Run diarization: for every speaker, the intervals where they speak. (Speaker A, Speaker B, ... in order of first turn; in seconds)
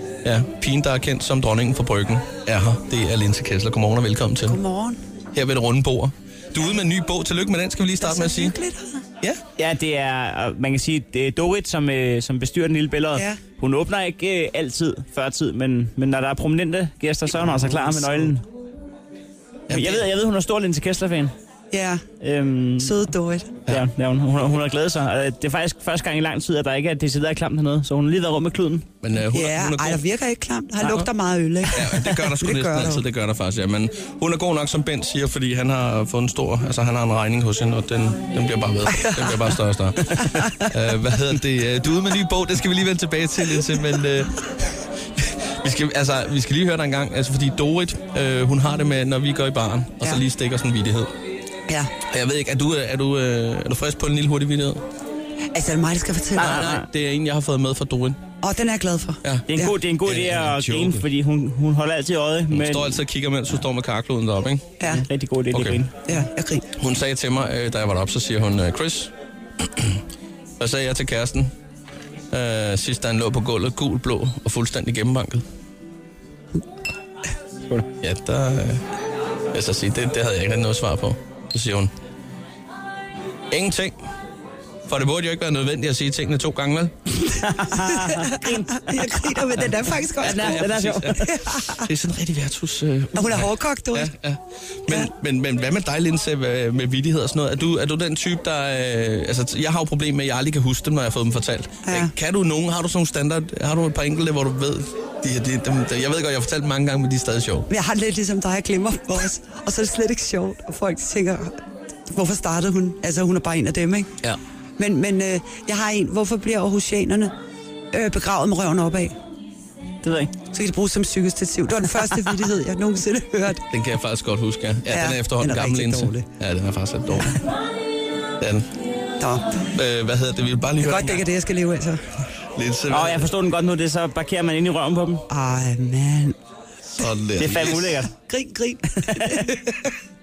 Speaker A: 0.2-4.6, 5.3-8.6, 19.7-20.1, 29.0-30.0, 30.8-31.1, 31.6-51.1, 52.0-54.8, 56.4-58.2, 59.2-59.5, 60.0-61.0, 62.5-64.7, 65.5-65.8, 66.8-70.0, 70.6-71.5, 72.3-75.4, 78.0-78.8, 79.5-81.9, 83.5-83.9, 84.9-87.2, 90.2-107.7, 123.7-127.4, 128.4-128.7, 129.7-131.2, 132.5-133.3, 136.9-138.1
Speaker B: 4.5-5.0, 8.0-9.0, 13.1-13.4, 21.7-22.0, 22.8-23.6, 29.3-33.0, 38.9-39.4, 40.3-40.6, 55.5-56.6, 58.4-59.7, 64.8-65.0, 66.0-66.6, 87.7-91.9, 93.1-94.1, 101.8-102.1, 107.7-114.1, 114.8-117.3, 117.9-119.1, 120.5-123.7, 124.9-126.3, 129.2-129.6, 130.8-132.0, 135.3-136.3, 138.2-139.9
Speaker C: 9.6-18.4, 19.7-21.3, 22.2-23.0, 23.7-28.9, 56.4-56.9, 59.5-63.0, 64.9-65.9, 87.3-89.4, 90.2-91.3, 120.0-120.3, 132.9-135.2, 137.4-138.1, 139.2-139.4